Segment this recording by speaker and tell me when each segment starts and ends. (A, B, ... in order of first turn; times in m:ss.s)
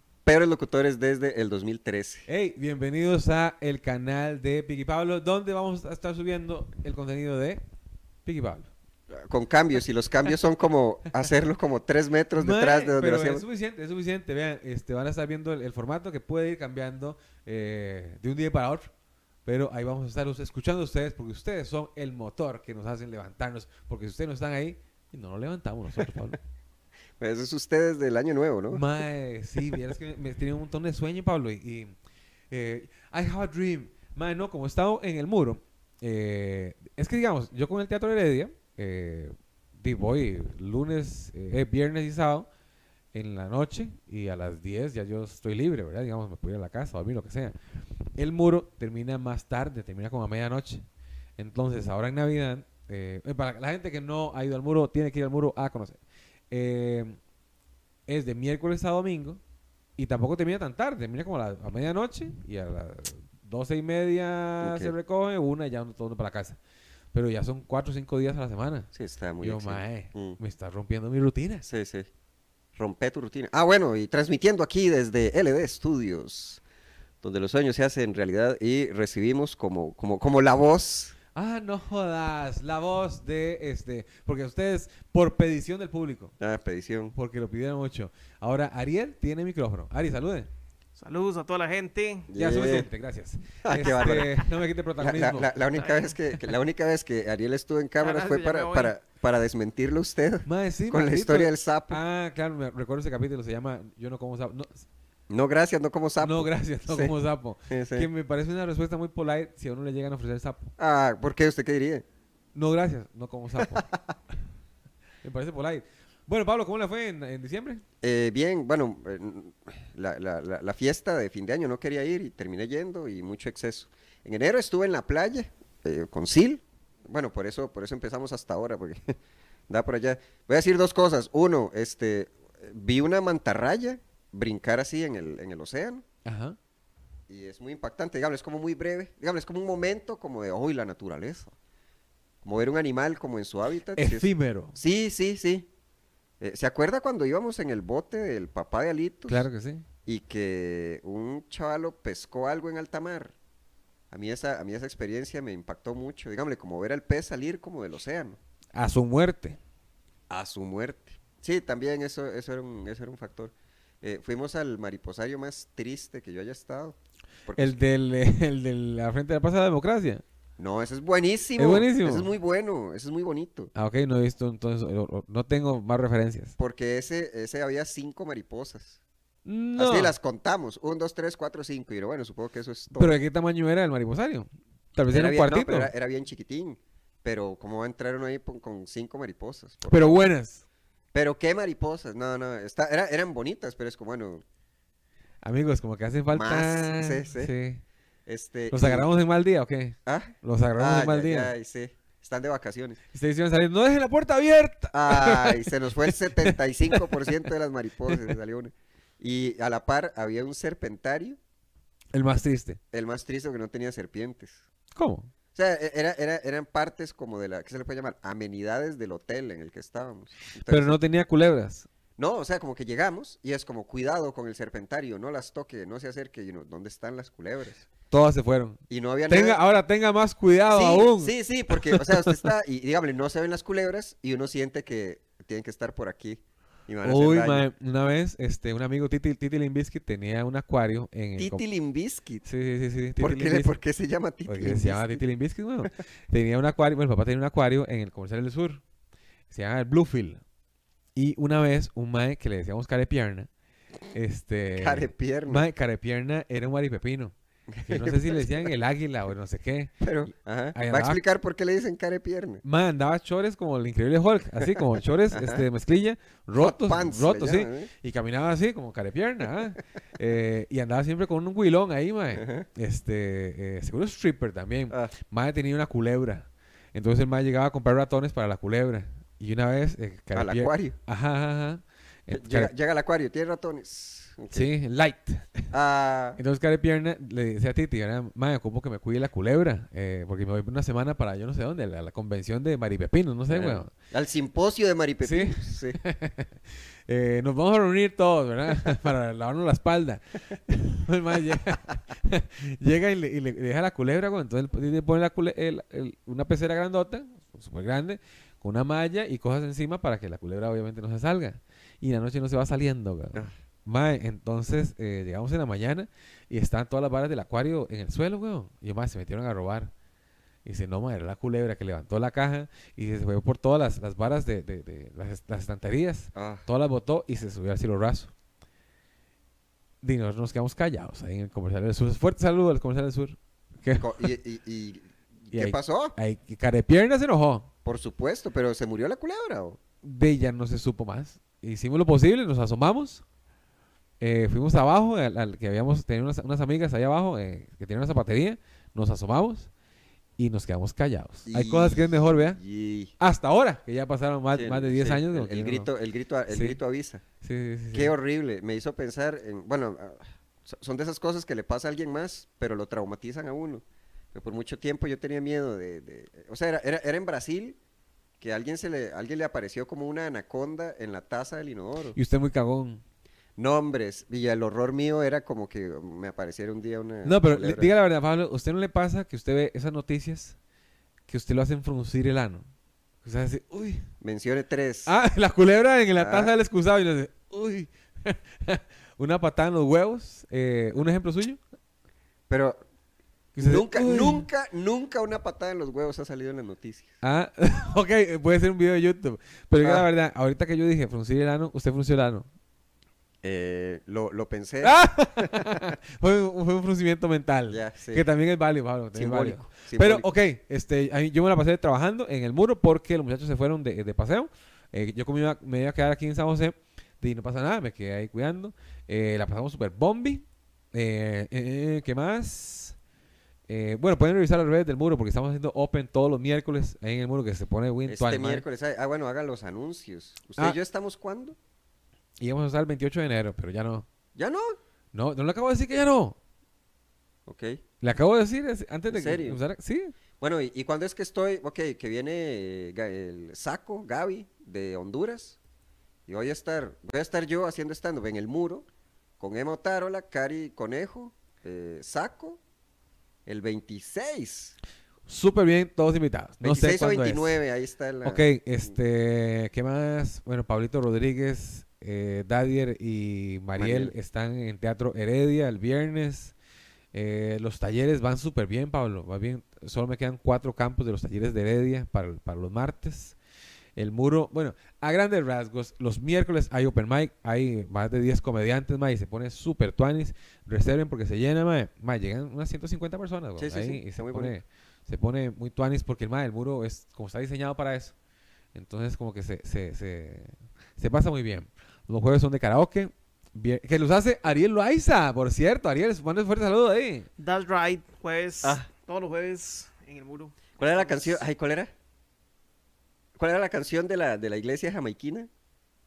0:00.2-0:02.3 A
0:02.3-0:07.6 B
0:08.2-0:08.7 B
0:09.1-0:13.4 A
0:12.4-0:18.9 B
0:19.4-0:26.4 B
0:27.2-0:28.8 A
0:28.7-0:31.9 B
0:32.5-0:42.5 B
0:43.1-0:47.6 B
0:48.2-0:50.8 B
0:51.4-0:56.0 B
0:56.5-0:57.2 B
0:58.1-0:59.4 B
1:00.0-1:06.6 B
1:04.6-1:04.9 A
1:07.1-1:08.9 B
1:08.9-1:10.4 A
1:09.4-1:11.6 B
1:11.6-1:12.1 A
1:12.8-1:16.6 A
1:17.2-1:21.2 A
1:21.3-1:26.3 B
1:26.4-1:27.1 A
1:27.1-1:30.5 B
1:31.0-1:32.3 C
1:32.3-1:32.9 A
1:32.3-1:35.5 B
1:33.6-1:34.4 A
1:35.0-1:42.0 A
1:35.7-1:36.2 C
1:38.0-1:38.9 C
1:40.4-1:44.8 B
1:45.3-1:47.1 A
1:46.2-1:50.7 B
1:47.7-1:48.1 A
1:50.8-1:52.0 A
1:52.5-1:53.9 B
1:53.6-1:54.0 A
1:55.2-1:57.8 B
1:58.0-2:09.1 A
2:09.7-2:16.0 A
2:16.2-2:16.6 B
2:17.3-2:21.5 A
2:22.4-2:25.7 A
2:24.0-2:24.7 B
2:26.4-2:29.4 A
2:29.3-2:29.8 B
2:30.0-2:33.3 A
2:34.1-2:38.4 A
2:38.7-2:39.6 B
2:40.3-2:47.7 A
2:47.6-2:50.2 B
2:50.6-2:53.7 A
2:51.6-2:52.3 B
2:53.7-2:56.5 B
2:56.6-2:59.0 A
2:59.4-3:00.1 B
2:59.8-3:03.2 A
3:03.0-3:05.9 B
3:05.1-3:10.2 A
3:09.9-3:10.6 B
3:11.1-3:14.4 A
3:15.4-3:17.8 B
3:16.3-3:17.5 A
3:18.2-3:19.1 A
3:18.7-3:21.5 B
3:20.0-3:23.0 A
3:23.1-3:27.0 B
3:24.9-3:31.4 A
3:32.1-3:32.8 B
3:32.9-3:34.6 A
3:34.9-3:35.3 B
3:35.5-3:41.0 A
3:40.6-3:41.9 B
3:42.2-3:47.9 A
3:48.1-3:52.5 B
3:48.9-3:49.6 A
3:50.7-3:57.6 A
3:57.0-4:01.6 B
4:01.4-4:02.4 A
4:02.4-4:03.7 B
4:03.2-4:05.2 A
4:04.4-4:08.8 B
4:09.5-4:10.4 B
4:11.1-4:13.5 B
4:14.1-4:19.9 B
4:14.8-4:15.6 A
4:17.8-4:18.7 A
4:20.0-4:22.6 A
4:20.7-4:21.2 B
4:22.6-4:42.7 B
4:24.6-4:25.6 A
4:26.6-4:27.9 A
4:32.3-4:32.6 A
4:40.3-4:41.0 A
4:42.3-4:44.7 A
4:44.5-4:45.7 B
4:45.7-4:46.4 A
4:46.4-4:53.9 B
4:53.5-4:56.0 A
4:55.2-5:19.9 B
5:20.6-5:28.3 B
5:26.3-5:26.7 A
5:30.0-5:34.3 B
5:34.0-5:36.1 A
5:35.5-5:37.7 B
5:37.8-5:39.8 A
5:40.0-5:43.2 B
5:44.2-5:49.7 B
5:50.4-5:52.6 B
5:51.4-5:53.1 A
5:53.2-5:55.9 B
5:54.5-5:57.2 A
5:56.5-5:56.8 B
5:57.4-5:58.1 B
5:57.9-6:03.8 A
6:04.3-6:07.8 A
6:08.4-6:12.2 A
6:12.1-6:13.0 B
6:13.6-6:17.9 A
6:17.2-6:20.6 B
6:21.3-6:22.7 B
6:23.2-6:24.0 B
6:24.2-6:25.1 A
6:25.0-6:31.6 B
6:26.2-6:26.5 A
6:32.5-6:32.8 A
6:33.5-6:34.5 B
6:33.6-6:37.2 A
6:37.2-6:42.5 B
6:39.8-6:40.1 A
6:43.4-6:45.7 A
6:44.8-7:03.0 B
6:47.7-6:48.2 A
6:49.1-6:50.3 A
7:03.7-7:08.6 B
7:08.1-7:11.6 A
7:12.4-7:14.0 B
7:14.3-7:14.8 A
7:15.1-7:16.4 B
7:17.4-7:17.8 A
7:18.0-7:20.1 B
7:19.1-7:19.6 A
7:20.4-7:25.6 A
7:26.3-7:28.8 A
7:29.4-7:32.6 A
7:33.4-7:34.8 A
7:35.3-7:37.5 B
7:36.6-7:38.4 A
7:38.2-7:46.5 B
7:43.8-7:44.1 A
7:47.1-7:53.4 B
7:54.0-8:08.1 B
8:03.6-8:04.5 A
8:08.7-8:17.3 B
8:17.4-8:21.4 C
8:20.8-8:21.9 A
8:23.4-8:25.5 A